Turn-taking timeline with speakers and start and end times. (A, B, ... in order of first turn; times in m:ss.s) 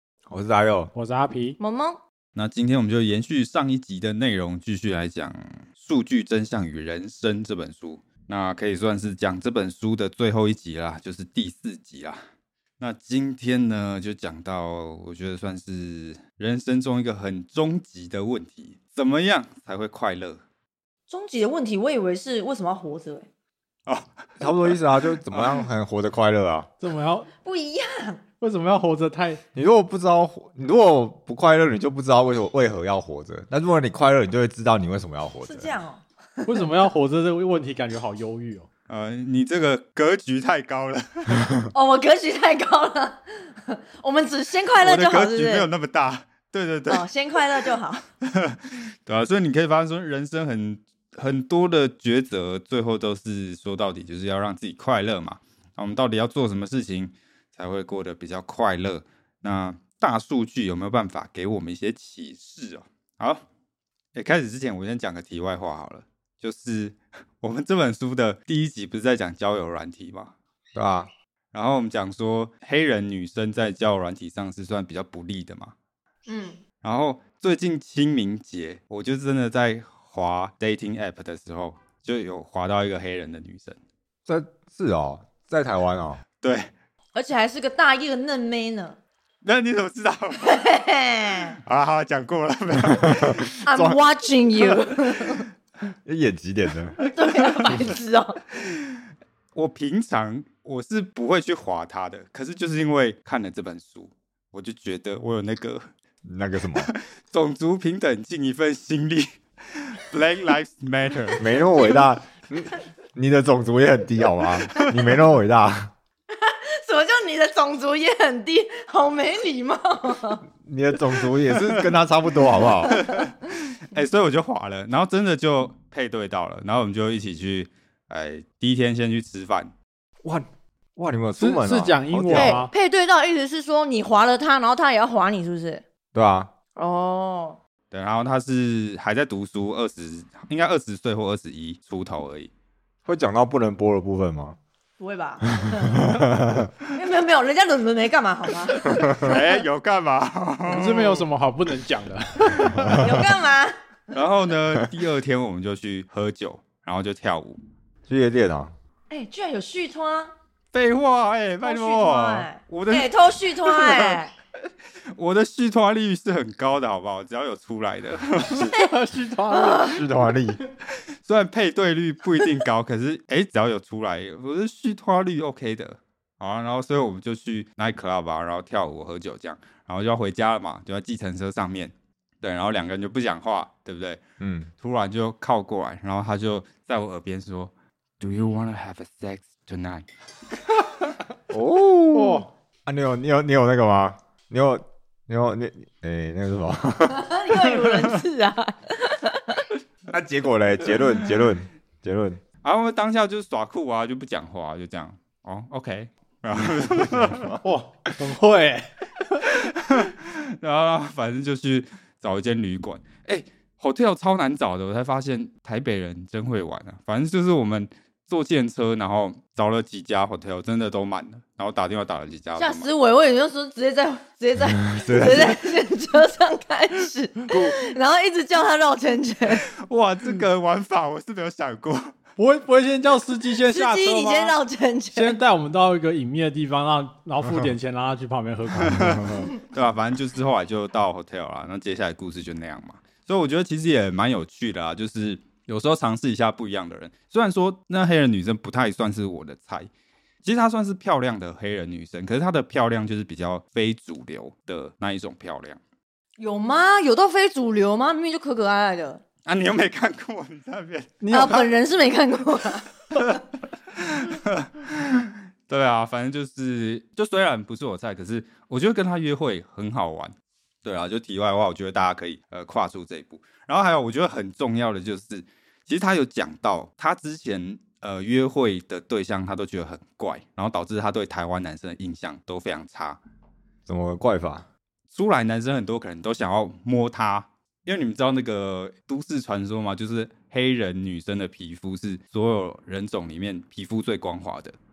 0:00.3-0:00.9 A
0:00.9-0:01.6 B
0:01.6-0:02.0 C
0:02.3-0:12.2 D
0:12.8-0:20.4 D
0:21.1-0:23.3 C
0:24.4-0:26.7 A
0:25.3-0:25.6 D
0:26.8-0:27.3 B
0:27.4-0:28.2 C
0:28.4-0:29.4 B
0:29.5-0:35.7 A
0:35.4-0:36.8 C
0:36.4-0:38.7 B
0:38.9-0:41.4 D
0:41.7-0:45.7 C
0:44.8-0:47.0 D
0:46.9-0:48.0 C
0:48.2-1:03.4 D
1:04.1-1:10.3 D
1:10.7-1:11.1 A
1:11.5-1:15.7 D
1:16.3-1:16.6 C
1:16.8-1:23.8 D
1:24.2-1:26.2 A
1:26.4-1:26.7 D
1:27.1-1:29.0 C
1:29.4-1:30.6 D
1:30.4-1:31.6 C
1:31.6-1:33.6 D
1:32.9-1:34.0 A
1:33.6-1:35.5 C
1:36.0-1:37.0 A
1:37.0-1:38.4 C
1:38.6-1:39.0 D
1:39.6-1:45.9 D
1:46.2-1:46.9 A
1:46.8-1:51.6 D
1:51.4-1:55.9 A
1:56.3-2:00.4 C
2:00.6-2:03.0 A
2:02.9-2:09.7 D
2:10.2-2:12.6 A
2:11.4-2:12.7 B
2:12.3-2:15.8 C
2:16.1-2:16.5 A
2:16.8-2:17.6 C
2:17.9-2:22.5 D
2:23.0-2:24.6 A
2:25.0-2:26.2 C
2:25.6-2:26.7 A
2:26.9-2:29.4 C
2:29.0-2:31.3 D
2:30.7-2:33.0 B
2:32.7-2:33.1 A
2:32.9-2:33.8 C
2:34.1-2:37.6 D
2:38.1-2:38.7 A
2:39.1-2:40.3 C
2:40.7-2:44.2 D
2:41.6-2:44.3 C
2:45.1-2:48.8 D
2:48.5-2:50.0 B
2:48.7-2:48.9 C
2:49.5-2:50.0 C
2:49.6-2:50.6 A
2:51.2-3:04.2 D
3:04.4-3:04.7 A
3:04.8-3:10.1 D
3:11.5-3:17.3 A
3:12.1-3:12.4 B
3:17.1-3:19.7 C
3:20.1-3:22.4 A
3:22.6-3:27.6 D
3:27.0-3:27.6 A
3:27.6-3:29.5 B
3:29.7-3:42.9 D
3:42.6-3:49.7 C
3:44.7-3:45.6 A
3:49.8-3:52.1 D
3:52.4-3:54.6 B
3:53.7-3:55.4 C
3:55.1-3:59.5 B
3:58.9-4:09.9 D
4:10.4-4:15.8 D
4:16.4-4:19.2 C
4:19.4-4:21.6 D
4:21.2-4:21.6 B
4:21.3-4:23.4 C
4:23.9-4:43.2 D
4:43.9-4:44.6 A
4:45.1-4:54.8 D